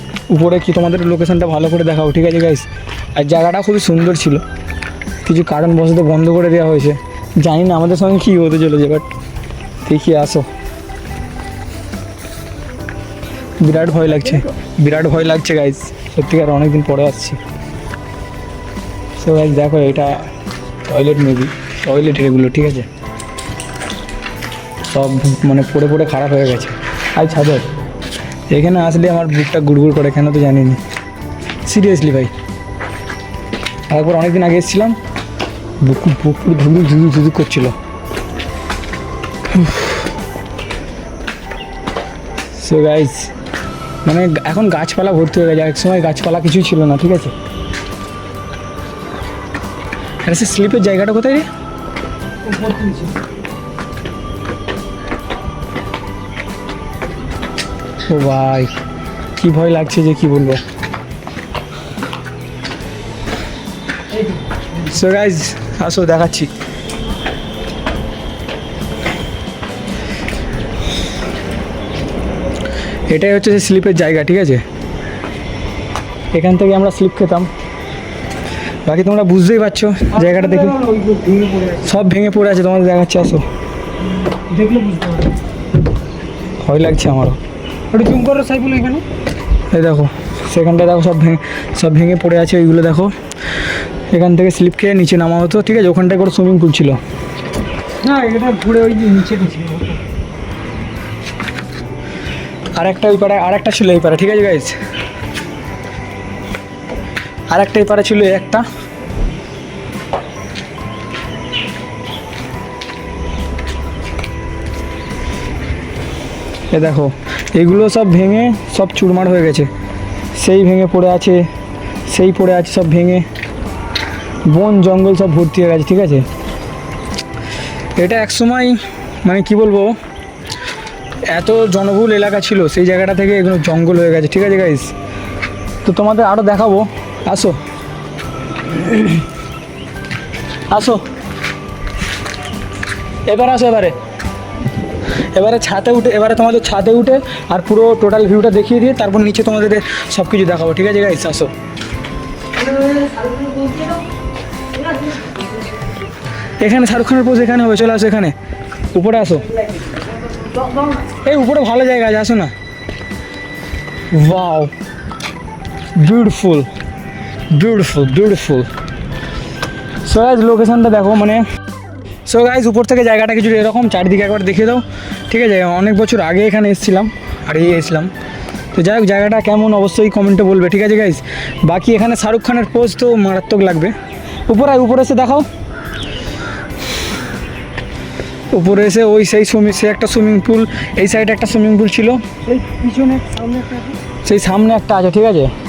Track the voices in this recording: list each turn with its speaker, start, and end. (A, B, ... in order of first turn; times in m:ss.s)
0:00.3-0:04.4 A
0:05.2-0:09.1 A
0:09.8-0:10.5 A
0:13.6-0:17.4 A
0:19.2-0:20.3 A
0:20.9-0:22.9 A
0:24.9-0:27.7 A
0:28.5-0:30.8 A
0:31.7-0:32.3 A
0:33.9-0:35.0 A
0:35.8-0:37.8 A
0:39.5-0:40.0 A
0:42.5-0:43.3 A
0:44.0-0:47.3 A
0:50.2-0:51.5 A
0:52.4-0:53.2 B
0:58.1-0:58.7 A
0:59.4-1:00.6 A
1:04.8-1:06.5 A
1:13.1-1:14.6 A
1:16.3-1:17.5 A
1:18.8-1:20.8 A
1:20.1-1:22.0 B
1:21.8-1:23.4 A
1:24.5-1:25.4 B
1:26.6-1:27.4 A
1:27.9-1:29.0 B
1:29.7-1:33.1 A
1:34.1-1:37.0 A
1:38.0-1:40.0 B
1:42.8-1:44.8 A
1:47.5-1:48.6 A
1:56.7-1:59.7 A
2:00.4-2:01.5 A
2:02.1-2:03.3 A
2:04.5-2:06.3 A
2:08.0-2:10.0 A
2:11.3-2:14.9 A
2:15.8-2:17.6 A
2:18.7-2:19.2 A
2:20.7-2:21.0 A
2:23.3-2:24.0 A
2:25.3-2:31.5 A
2:32.6-2:34.0 B
2:34.8-2:35.2 B
2:36.6-2:38.4 A
2:38.9-2:39.6 A
2:40.6-2:40.8 B
2:41.1-2:42.5 A
2:44.1-2:44.7 A
2:46.0-2:46.7 A
2:47.5-2:48.7 A
2:50.1-2:51.5 A
2:52.3-2:58.1 A
2:58.7-3:04.0 A
3:04.5-3:05.5 A
3:08.5-3:12.2 A
3:12.4-3:14.0 B
3:14.2-3:15.5 A